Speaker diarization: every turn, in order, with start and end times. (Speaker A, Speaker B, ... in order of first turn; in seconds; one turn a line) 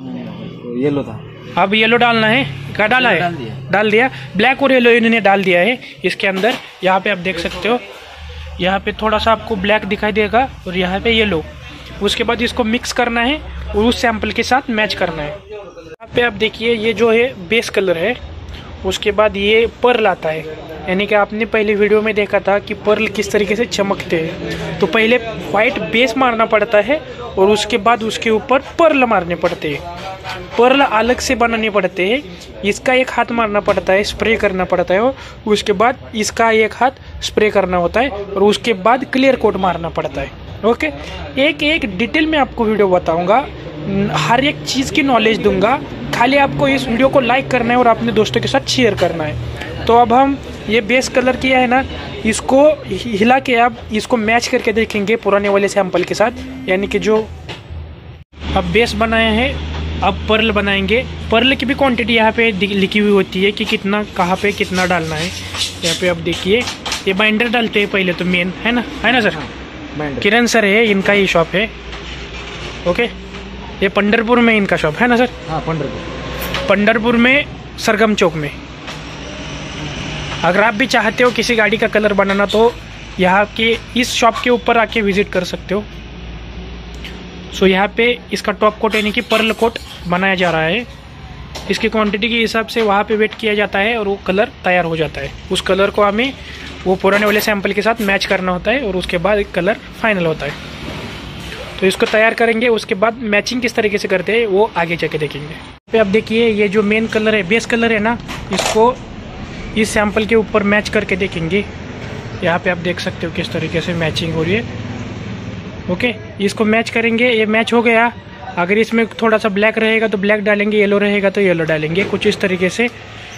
Speaker A: 0.1-1.2
Speaker B: 1.5-7.8
Speaker B: 8.6-11.5
Speaker B: 12.0-15.4
Speaker B: 16.0-18.2
Speaker B: 18.8-29.8
Speaker B: 30.5-57.3
Speaker B: 58.5-69.5
Speaker A: 70.0-70.2
Speaker B: 70.1-71.7
Speaker B: 72.8-73.1
Speaker B: 73.8-75.5
Speaker A: 75.5-76.1
Speaker B: 76.6-78.5
Speaker B: 80.4-85.9
Speaker B: 87.5-90.9
Speaker B: 91.7-100.6
Speaker B: 101.8-109.0
Speaker B: 109.7-111.7
Speaker B: 112.4-114.7
Speaker B: 115.9-122.9